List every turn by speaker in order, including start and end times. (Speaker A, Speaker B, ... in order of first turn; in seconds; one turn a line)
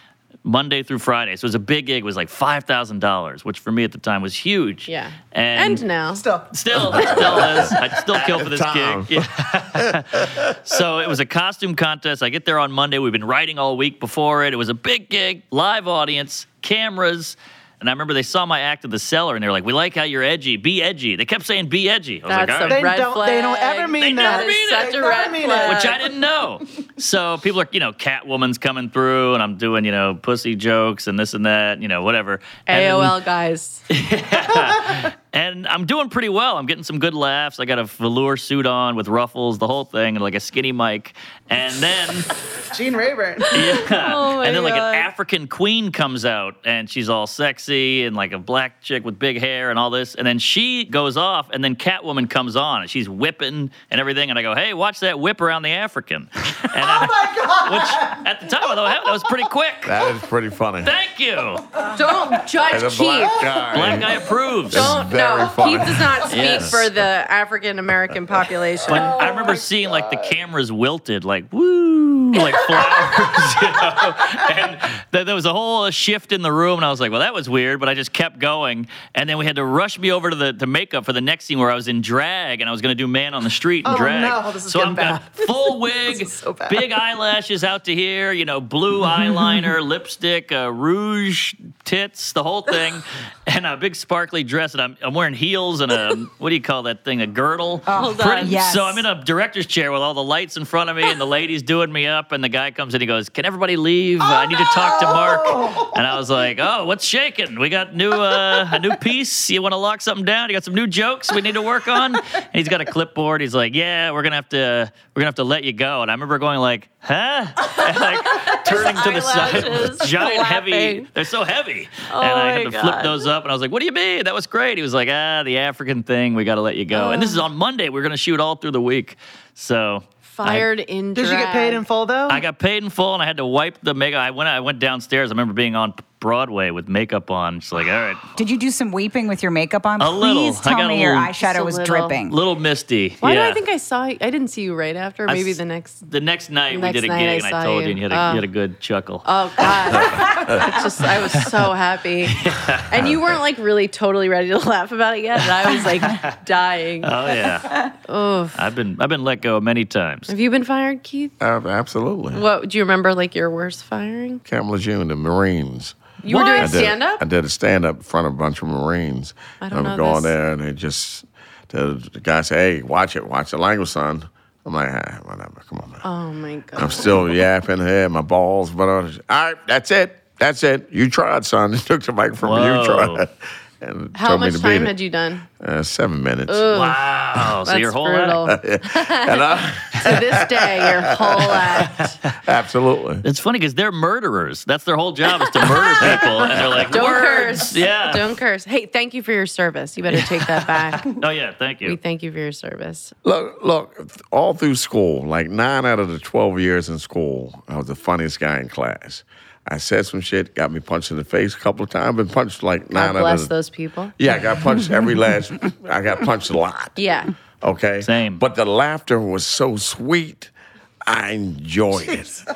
Speaker A: 0.4-5.9
Speaker B: 4.9-6.2
Speaker C: 6.1-7.7
Speaker A: 6.5-22.8
Speaker D: 6.9-7.6
Speaker D: 8.1-10.6
Speaker B: 22.3-26.0
Speaker C: 22.7-26.1
Speaker A: 24.0-24.9
Speaker A: 25.6-33.1
Speaker B: 32.7-33.8
Speaker A: 33.9-42.3
Speaker C: 42.6-43.6
Speaker B: 43.5-45.1
Speaker A: 43.5-59.9
Speaker C: 56.7-58.2
Speaker D: 59.8-60.9
Speaker A: 60.8-61.7
Speaker C: 61.8-62.4
Speaker B: 61.8-63.5
Speaker D: 62.7-66.9
Speaker A: 63.7-65.0
Speaker B: 64.7-69.2
Speaker A: 66.3-66.8
Speaker A: 68.9-130.7
Speaker C: 69.2-69.6
Speaker C: 83.8-86.9
Speaker E: 97.9-99.0
Speaker B: 97.9-98.5
Speaker C: 104.2-106.0
Speaker B: 118.3-121.1
Speaker B: 122.1-123.3
Speaker B: 126.9-127.4
Speaker B: 130.3-131.8
Speaker C: 131.1-132.4
Speaker A: 132.3-138.3
Speaker E: 138.4-142.4
Speaker A: 140.0-141.3
Speaker B: 141.4-142.2
Speaker A: 142.3-143.6
Speaker B: 143.2-146.0
Speaker A: 145.3-150.3
Speaker B: 146.7-148.4
Speaker B: 149.2-152.4
Speaker A: 152.3-152.9
Speaker B: 152.9-157.1
Speaker A: 157.0-157.9
Speaker B: 158.1-158.6
Speaker A: 158.6-160.3
Speaker B: 160.3-161.3
Speaker D: 161.4-162.4
Speaker B: 162.3-164.4
Speaker D: 164.4-176.0
Speaker B: 166.2-167.2
Speaker B: 169.6-170.3
Speaker B: 176.0-177.3
Speaker D: 176.8-183.3
Speaker A: 182.4-183.2
Speaker D: 183.8-184.9
Speaker B: 184.1-185.4
Speaker D: 185.6-186.7
Speaker B: 186.5-187.0
Speaker A: 186.7-188.4
Speaker B: 187.6-192.1
Speaker D: 188.5-193.2
Speaker A: 193.2-198.3
Speaker D: 196.0-196.9
Speaker B: 196.9-201.1
Speaker A: 200.1-202.0
Speaker B: 201.8-203.1
Speaker D: 203.2-213.5
Speaker B: 212.9-214.1
Speaker D: 214.2-216.9
Speaker B: 216.9-217.3
Speaker D: 217.6-220.5
Speaker A: 218.0-218.4
Speaker D: 221.1-222.4
Speaker C: 221.9-222.2